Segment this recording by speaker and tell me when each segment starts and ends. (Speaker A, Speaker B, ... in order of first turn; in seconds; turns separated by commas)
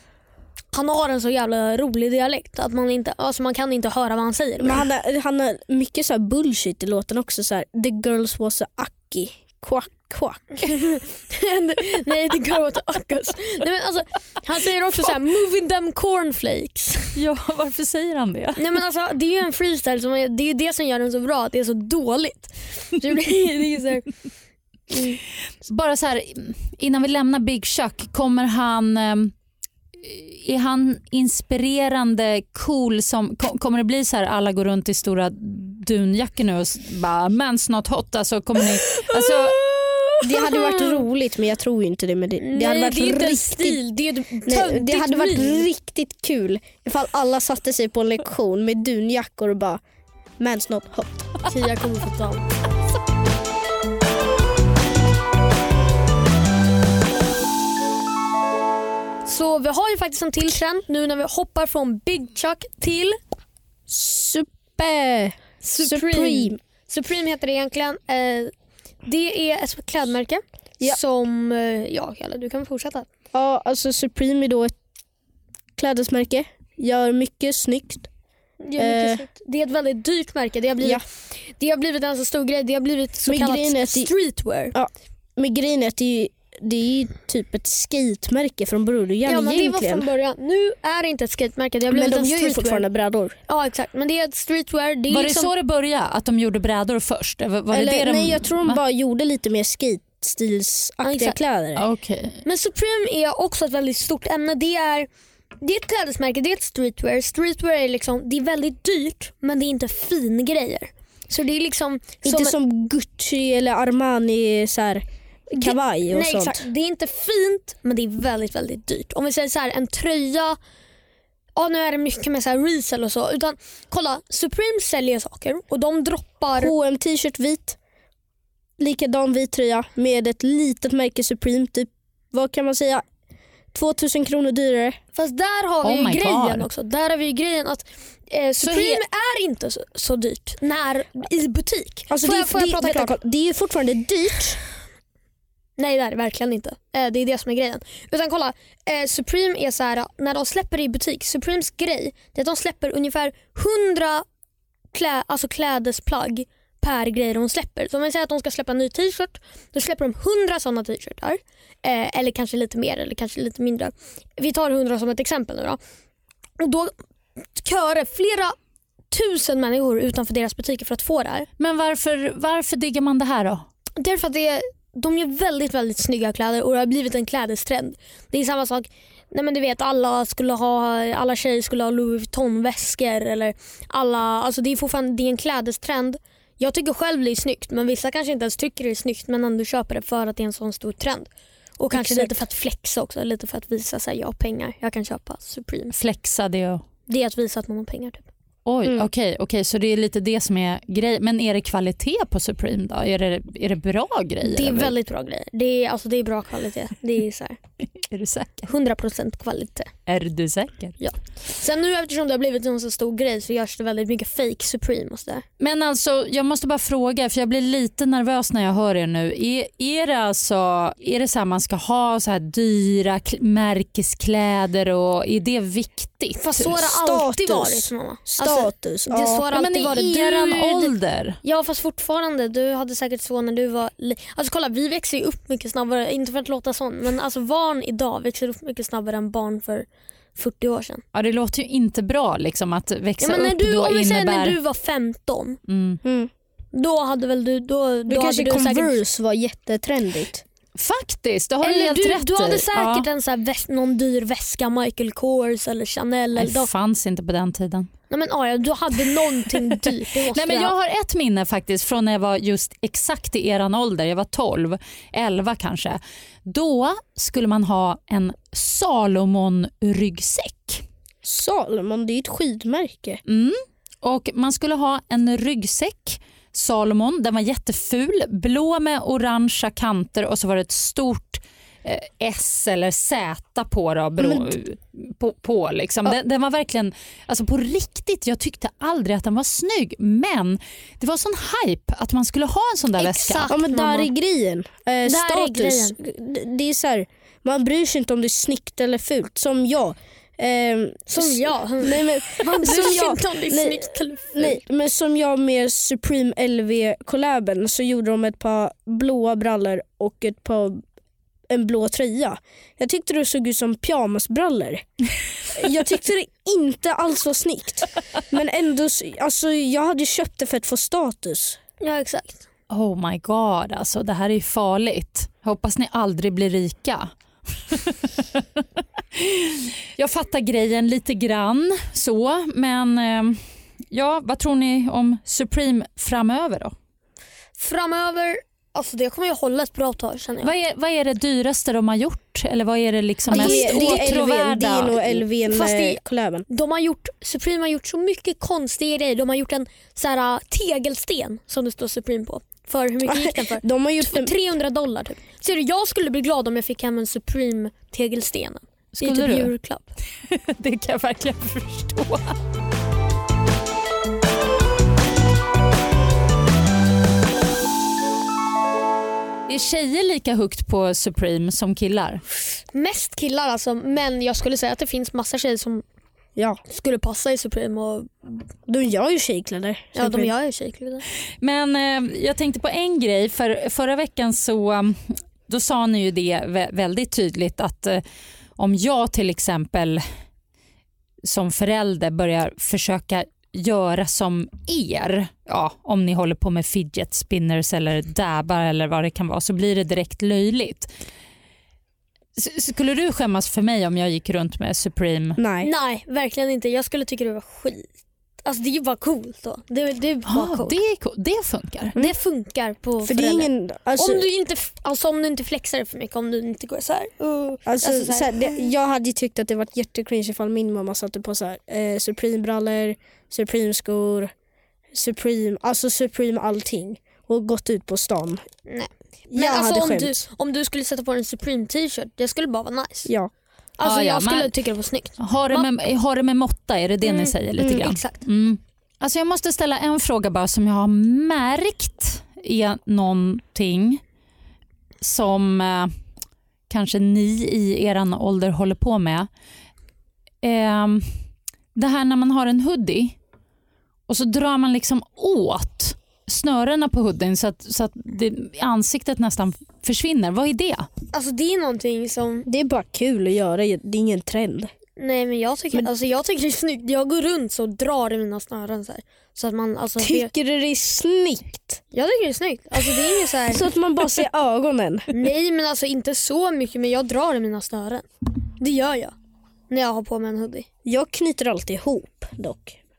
Speaker A: 0.7-4.8, Speaker B: 4.6-10.4, Speaker A: 10.6-17.1, Speaker C: 17.1-18.8, Speaker A: 18.6-24.1, Speaker A: 24.9-25.2, Speaker C: 25.6-29.3, Speaker C: 30.0-39.6, Speaker A: 39.6-41.0, Speaker B: 40.2-43.8, Speaker A: 42.4-45.6, Speaker B: 44.5-49.8, Speaker B: 50.4-51.3, Speaker A: 51.5-52.5, Speaker A: 59.2-63.2, Speaker B: 63.9-66.6, Speaker A: 65.6-68.5, Speaker A: 69.0-73.0, Speaker B: 73.3-74.7, Speaker B: 75.8-78.1, Speaker A: 78.6-84.7, Speaker B: 78.8-79.2, Speaker B: 83.2-84.1, Speaker B: 84.7-90.1, Speaker A: 89.2-92.8, Speaker B: 91.9-93.3, Speaker A: 93.5-95.5, Speaker C: 95.1-98.8, Speaker B: 97.7-101.8, Speaker A: 101.0-101.4, Speaker C: 101.8-102.4, Speaker A: 102.4-105.1, Speaker A: 105.6-112.5, Speaker B: 112.2-116.6, Speaker A: 115.6-120.6, Speaker A: 121.5-126.7, Speaker B: 126.6-127.8, Speaker B: 128.8-133.0, Speaker B: 133.7-135.0, Speaker A: 135.1-143.2, Speaker C: 135.8-136.7, Speaker C: 138.6-139.0, Speaker B: 142.1-144.6, Speaker A: 145.8-154.2, Speaker A: 154.9-165.8, Speaker A: 166.6-166.9, Speaker A: 167.6-168.5, Speaker A: 169.1-171.5, Speaker C: 171.6-173.7, Speaker A: 173.9-195.9, Speaker B: 191.9-192.3, Speaker C: 195.9-196.8, Speaker A: 197.1-198.2, Speaker C: 198.7-204.9, Speaker A: 204.4-207.6, Speaker C: 208.0-208.7, Speaker A: 208.7-209.9, Speaker C: 210.1-210.9, Speaker A: 211.0-215.4, Speaker C: 215.6-226.4, Speaker A: 226.4-230.9, Speaker B: 226.6-229.4, Speaker C: 229.5-231.4, Speaker A: 231.4-241.0, Speaker C: 241.1-244.6, Speaker A: 243.2-245.6, Speaker C: 245.7-246.0, Speaker B: 246.0-246.3, Speaker A: 246.7-249.0, Speaker B: 248.1-250.4, Speaker C: 250.8-253.1, Speaker A: 251.6-256.7, Speaker C: 256.4-257.9, Speaker A: 258.1-260.7, Speaker C: 259.5-270.8, Speaker B: 271.2-273.2, Speaker C: 273.3-293.5, Speaker B: 284.2-284.5, Speaker A: 293.0-294.1, Speaker B: 293.5-310.8, Speaker A: 295.0-296.0, Speaker A: 301.1-304.6, Speaker B: 311.5-314.8, Speaker B: 315.5-321.6, Speaker A: 321.8-322.4, Speaker C: 322.7-327.1, Speaker C: 327.7-328.1, Speaker C: 329.1-336.7, Speaker A: 337.6-340.5, Speaker C: 340.4-345.2, Speaker B: 343.3-346.4, Speaker A: 343.3-344.2, Speaker A: 345.5-359.9, Speaker B: 353.1-354.3, Speaker C: 358.9-359.5, Speaker C: 360.3-362.4, Speaker C: 369.5-372.2, Speaker A: 372.7-375.8, Speaker A: 376.7-378.4, Speaker B: 378.7-380.3, Speaker A: 379.9-381.0, Speaker C: 381.4-388.0, Speaker C: 388.6-390.0, Speaker C: 391.2-400.9, Speaker C: 402.4-405.4, Speaker B: 405.4-405.7, Speaker A: 405.6-407.9, Speaker A: 408.4-410.8, Speaker C: 410.3-411.9, Speaker A: 411.9-418.6, Speaker B: 413.0-414.2, Speaker B: 417.6-424.3, Speaker B: 424.9-428.4, Speaker A: 428.7-433.1, Speaker B: 429.3-430.1, Speaker B: 433.1-433.3, Speaker A: 433.8-435.7, Speaker C: 433.8-434.5, Speaker C: 435.2-444.0, Speaker A: 437.0-438.2, Speaker C: 445.0-445.9, Speaker C: 446.7-449.3, Speaker C: 450.4-451.1, Speaker C: 451.8-453.1, Speaker C: 454.1-460.9, Speaker A: 461.1-462.4, Speaker B: 462.4-464.7, Speaker A: 465.0-470.3, Speaker B: 470.0-471.8, Speaker A: 471.9-473.7, Speaker B: 473.4-475.1, Speaker A: 475.1-478.1, Speaker A: 478.6-479.1, Speaker A: 479.7-480.6, Speaker B: 480.8-482.8